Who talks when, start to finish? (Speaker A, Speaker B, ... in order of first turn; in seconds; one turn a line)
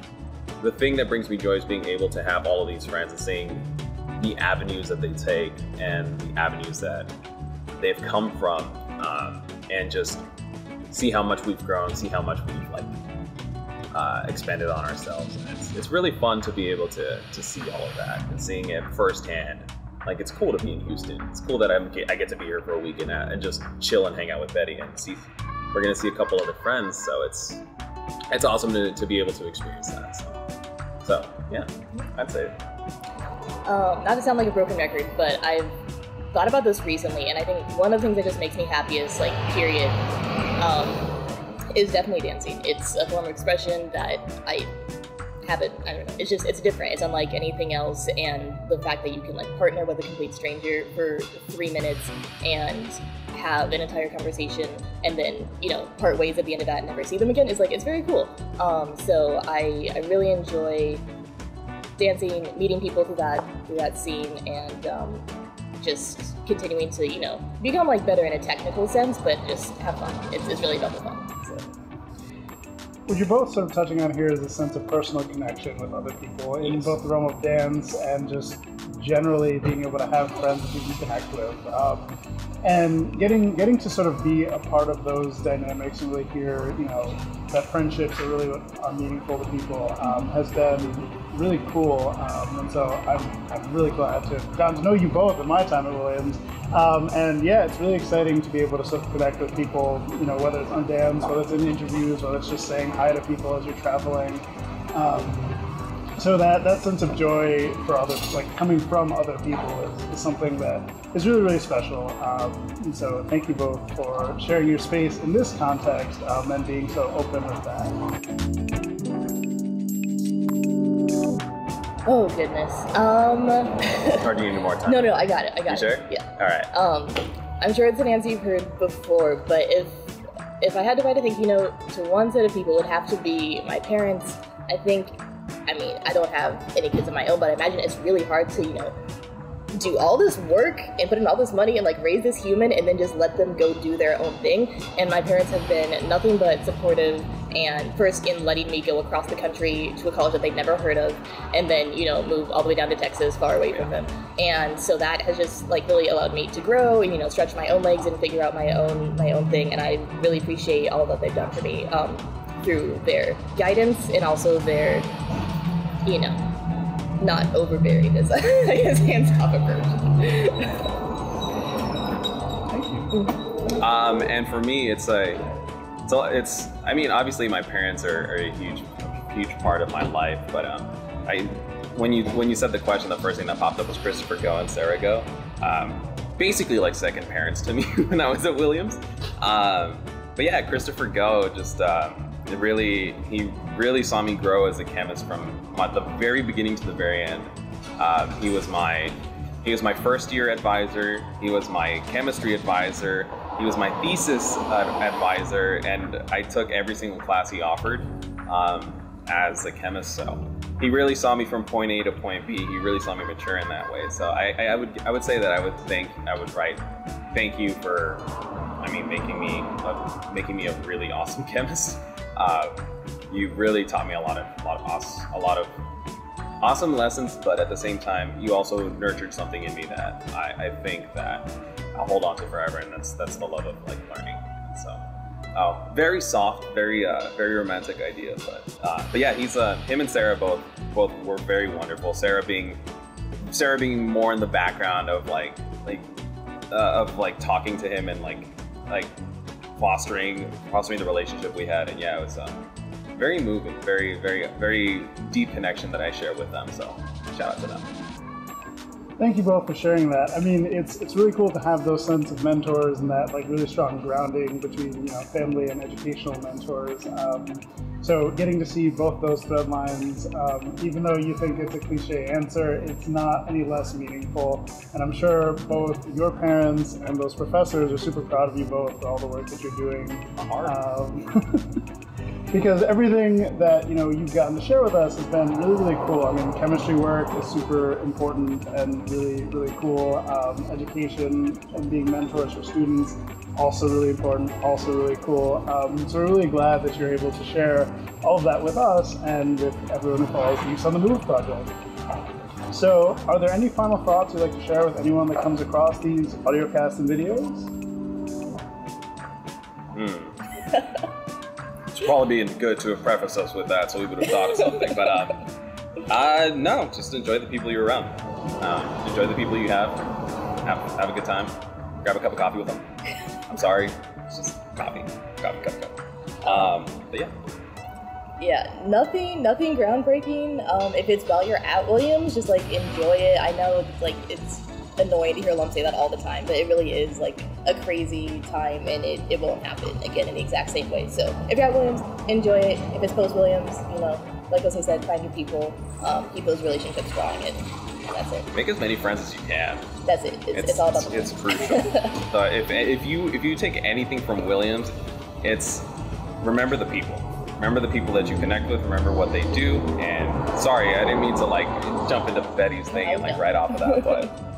Speaker A: 0.6-7.1
Speaker A: 7.8-10.2
Speaker A: 10.9-12.9
Speaker A: 13.9-27.6
Speaker A: 28.3-30.4
Speaker A: 31.0-32.6
Speaker B: 33.6-35.7
Speaker B: 36.3-40.0
Speaker B: 40.6-41.2
Speaker B: 41.7-44.7
Speaker B: 45.4-61.0
Speaker B: 62.0-65.3
Speaker B: 65.8-71.7
Speaker C: 73.1-105.6
Speaker A: 76.6-76.9
Speaker C: 106.2-118.0
Speaker B: 122.1-124.3
Speaker A: 124.2-126.7
Speaker B: 124.9-130.1
Speaker B: 130.6-138.9
Speaker B: 139.7-165.2
Speaker B: 166.1-166.4
Speaker B: 167.2-170.9
Speaker C: 172.7-173.1
Speaker A: 173.7-175.5
Speaker A: 176.1-218.3
Speaker A: 218.8-225.8
Speaker A: 226.6-235.0
Speaker A: 235.6-242.8
Speaker A: 243.5-246.1
Speaker A: 246.7-249.1
Speaker A: 249.8-252.6
Speaker A: 253.2-257.9
Speaker C: 259.2-281.7
Speaker A: 280.4-280.7
Speaker C: 282.5-301.7
Speaker C: 302.7-307.7
Speaker A: 309.9-310.4
Speaker A: 311.9-315.4
Speaker A: 316.1-320.1
Speaker A: 320.6-322.9
Speaker A: 323.5-327.3
Speaker B: 328.4-348.5
Speaker A: 348.5-349.9
Speaker B: 350.1-352.1
Speaker A: 350.5-364.4
Speaker B: 363.0-364.2